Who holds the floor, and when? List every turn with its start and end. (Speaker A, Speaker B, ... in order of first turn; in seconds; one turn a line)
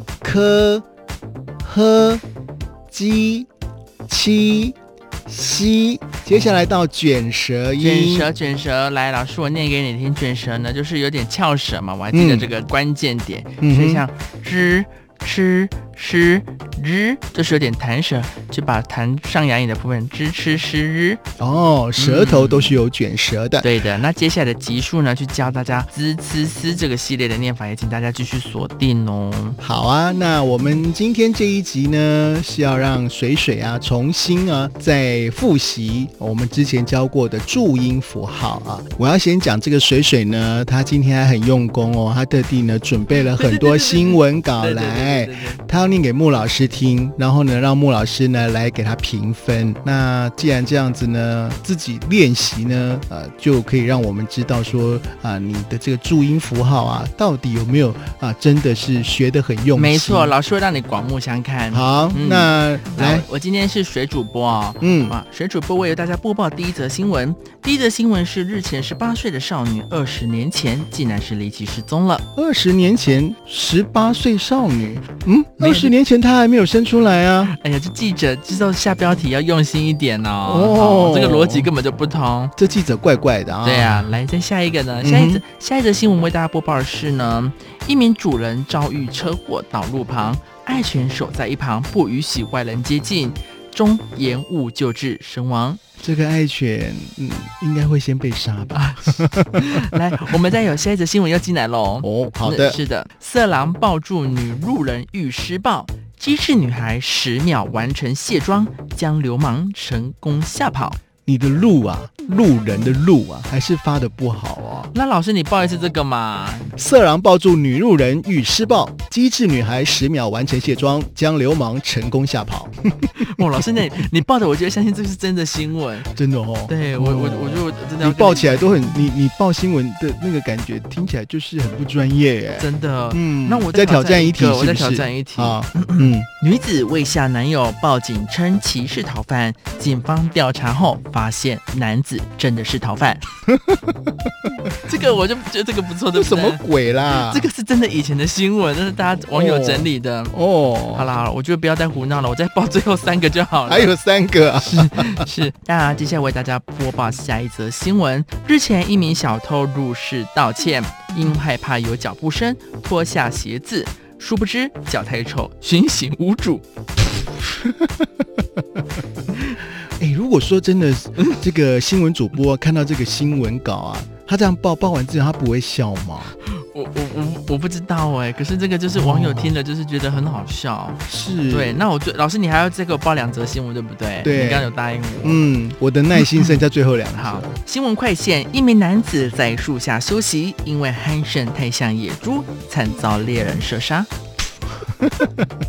Speaker A: 0.2-0.8
Speaker A: 1.6-2.2
Speaker A: 2.9-3.5
Speaker A: 4.1-4.7
Speaker A: 5.3-8.3
Speaker B: 7.8-21.2
Speaker A: 12.1-12.5
Speaker A: 13.6-14.0
Speaker A: 21.4-23.7
Speaker B: 22.0-22.8
Speaker B: 23.6-29.6
Speaker A: 29.6-60.3
Speaker B: 43.2-45.6
Speaker B: 59.7-72.2
Speaker A: 61.7-63.2
Speaker A: 64.8-65.2
Speaker A: 72.3-77.5
Speaker B: 75.6-75.9
Speaker B: 77.4-82.5
Speaker A: 80.5-81.7
Speaker A: 82.6-84.1
Speaker B: 83.6-95.8
Speaker A: 85.0-85.4
Speaker A: 96.0-100.0
Speaker B: 98.7-111.0
Speaker A: 102.0-102.8
Speaker A: 111.2-114.9
Speaker B: 114.9-116.7
Speaker A: 116.8-123.1
Speaker B: 123.1-126.1
Speaker A: 126.1-136.3
Speaker B: 126.7-128.9
Speaker B: 132.5-143.2
Speaker A: 143.5-144.5
Speaker B: 144.8-150.3
Speaker A: 146.1-147.5
Speaker A: 149.3-151.1
Speaker B: 150.9-153.9
Speaker A: 153.7-155.2
Speaker B: 154.6-166.6
Speaker A: 167.6-168.8
Speaker B: 169.3-169.6
Speaker A: 169.6-176.3
Speaker B: 176.3-185.4
Speaker A: 178.9-179.5
Speaker A: 181.1-181.8
Speaker A: 184.2-187.6
Speaker B: 186.1-186.6
Speaker B: 187.1-194.1
Speaker A: 195.0-195.5